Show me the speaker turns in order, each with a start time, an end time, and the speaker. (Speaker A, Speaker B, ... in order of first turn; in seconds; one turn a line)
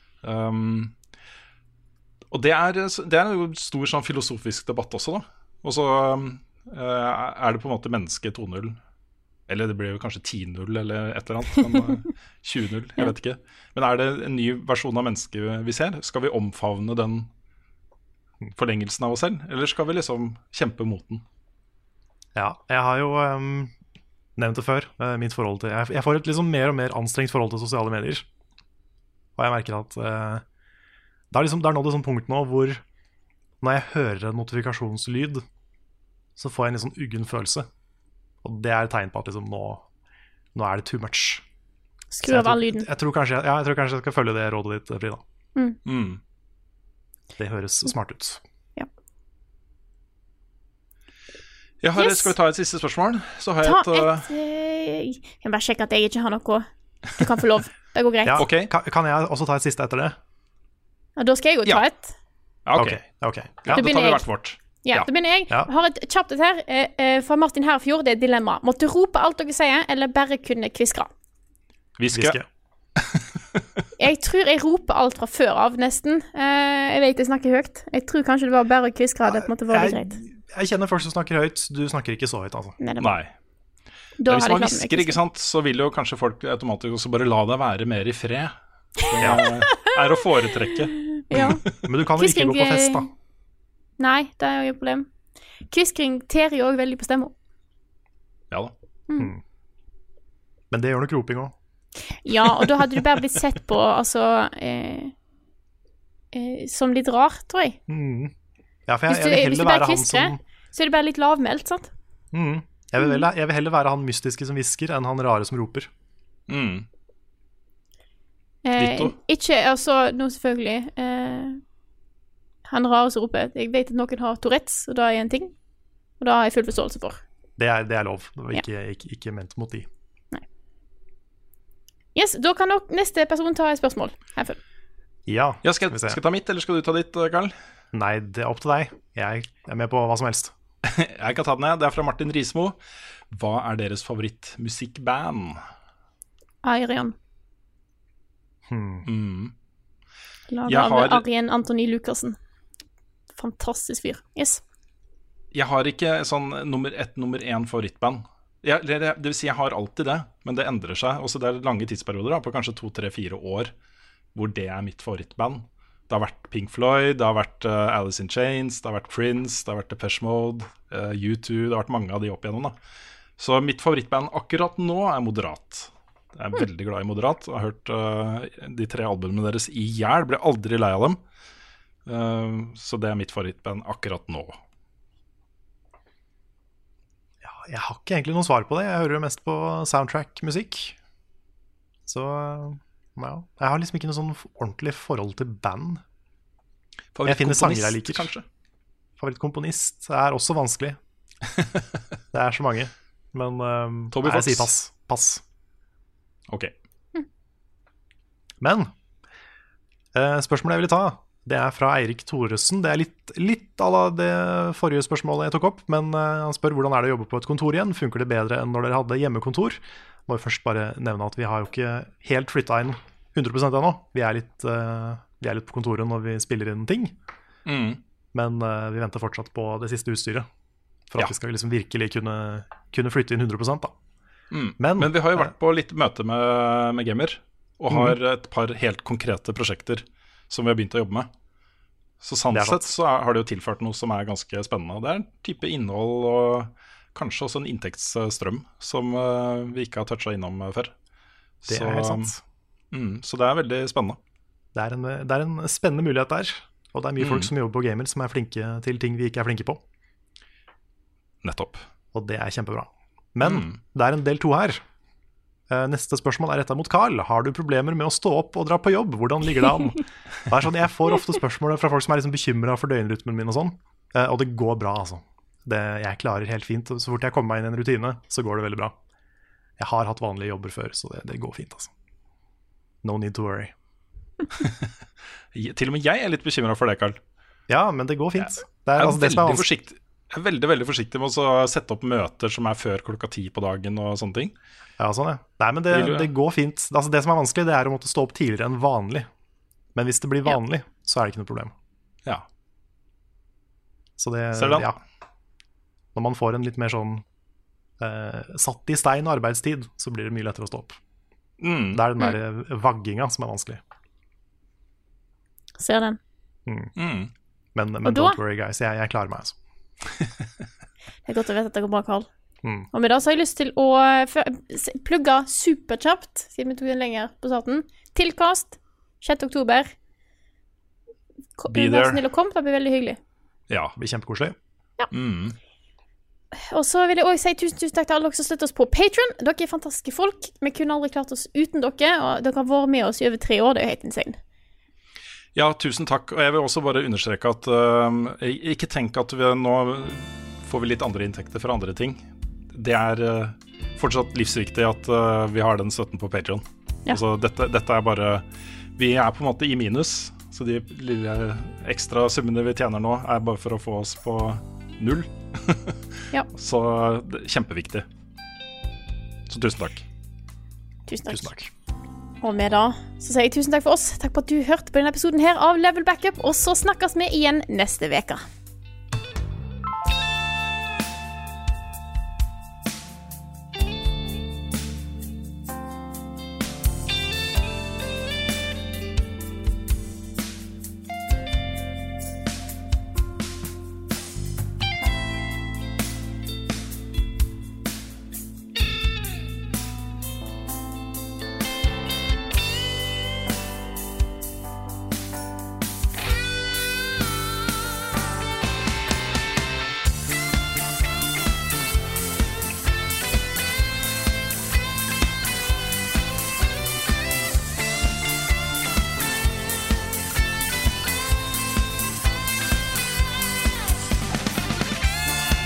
Speaker A: 0.2-0.9
Speaker A: 2.3-8.8
Speaker A: 9.5-17.3
Speaker A: 18.6-21.2
Speaker B: 22.3-23.7
Speaker B: 24.4-28.2
Speaker B: 29.4-30.4
Speaker B: 31.3-32.8
Speaker B: 33.6-35.4
Speaker B: 36.4-37.7
Speaker B: 38.4-39.8
Speaker B: 40.5-41.4
Speaker C: 42.1-42.9
Speaker B: 42.2-45.2
Speaker A: 45.8-46.2
Speaker B: 47.4-48.4
Speaker A: 51.8-54.3
Speaker C: 52.0-52.3
Speaker C: 53.6-58.4
Speaker B: 58.2-60.2
Speaker A: 58.4-58.7
Speaker C: 61.2-62.1
Speaker A: 62.6-63.0
Speaker B: 62.8-63.8
Speaker A: 63.6-65.1
Speaker C: 63.7-64.3
Speaker C: 64.8-71.1
Speaker A: 72.0-72.4
Speaker B: 72.1-72.5
Speaker A: 73.0-73.2
Speaker C: 74.0-80.2
Speaker B: 79.3-82.8
Speaker C: 82.8-83.2
Speaker A: 83.0-83.3
Speaker C: 84.2-85.2
Speaker A: 84.3-91.5
Speaker B: 89.2-89.5
Speaker C: 89.4-89.7
Speaker C: 91.3-91.6
Speaker B: 91.4-93.1
Speaker C: 92.2-93.1
Speaker C: 94.0-95.1
Speaker C: 95.7-97.3
Speaker B: 100.7-101.5
Speaker C: 102.1-105.1
Speaker C: 106.3-107.8
Speaker B: 107.9-108.3
Speaker B: 108.9-110.4
Speaker C: 109.1-111.9
Speaker B: 112.3-115.9
Speaker A: 116.5-116.8
Speaker C: 118.6-121.6
Speaker A: 118.8-119.1
Speaker C: 122.7-125.5
Speaker C: 126.2-127.2
Speaker B: 127.6-129.9
Speaker C: 132.1-134.6
Speaker B: 135.3-136.2
Speaker A: 135.6-137.5
Speaker B: 137.9-140.5
Speaker A: 140.8-142.8
Speaker A: 143.3-145.6
Speaker C: 146.6-147.1
Speaker B: 148.7-149.1
Speaker A: 149.1-149.5
Speaker C: 150.5-152.4
Speaker A: 150.7-151.2
Speaker C: 153.3-154.6
Speaker A: 155.5-163.7
Speaker A: 164.3-172.7
Speaker A: 173.4-181.2
Speaker A: 182.1-184.6
Speaker B: 187.4-190.9
Speaker B: 192.1-196.0
Speaker A: 197.2-198.4
Speaker B: 197.2-198.3
Speaker B: 199.2-201.0
Speaker A: 201.5-201.8
Speaker B: 202.3-205.4
Speaker A: 204.1-204.7
Speaker B: 208.6-208.9
Speaker B: 210.1-227.1
Speaker A: 227.7-228.0
Speaker B: 228.3-230.5
Speaker B: 231.1-233.9
Speaker A: 234.5-241.3
Speaker B: 234.8-235.5
Speaker B: 237.9-238.2
Speaker A: 242.2-250.9
Speaker B: 242.5-242.9
Speaker A: 251.6-252.3
Speaker B: 251.7-252.4
Speaker A: 252.9-254.2
Speaker B: 254.7-259.8
Speaker A: 257.2-257.5
Speaker A: 261.4-261.8
Speaker B: 262.1-264.8
Speaker A: 263.4-263.8
Speaker B: 265.7-278.9
Speaker B: 279.8-281.9
Speaker B: 283.0-283.7
Speaker A: 284.5-284.9
Speaker A: 285.5-287.2
Speaker B: 287.7-289.6
Speaker A: 288.4-294.5
Speaker B: 295.0-299.3
Speaker A: 295.9-296.3
Speaker B: 299.9-301.7
Speaker B: 304.2-305.0
Speaker A: 304.5-304.9
Speaker B: 306.1-307.2
Speaker B: 308.0-311.0
Speaker A: 311.6-312.0
Speaker B: 311.9-313.8
Speaker C: 315.8-316.2
Speaker B: 316.6-316.9
Speaker A: 317.0-317.3
Speaker B: 317.7-319.6
Speaker C: 318.0-318.4
Speaker C: 321.2-322.3
Speaker C: 322.9-329.9
Speaker C: 331.6-333.2
Speaker A: 331.7-332.2
Speaker A: 333.7-333.9
Speaker B: 334.0-334.6
Speaker A: 335.1-335.6
Speaker C: 336.5-344.4
Speaker A: 345.5-358.4
Speaker A: 359.0-366.0
Speaker A: 366.5-368.1
Speaker A: 369.5-370.0
Speaker C: 371.1-371.5
Speaker B: 371.3-371.7
Speaker C: 372.4-378.4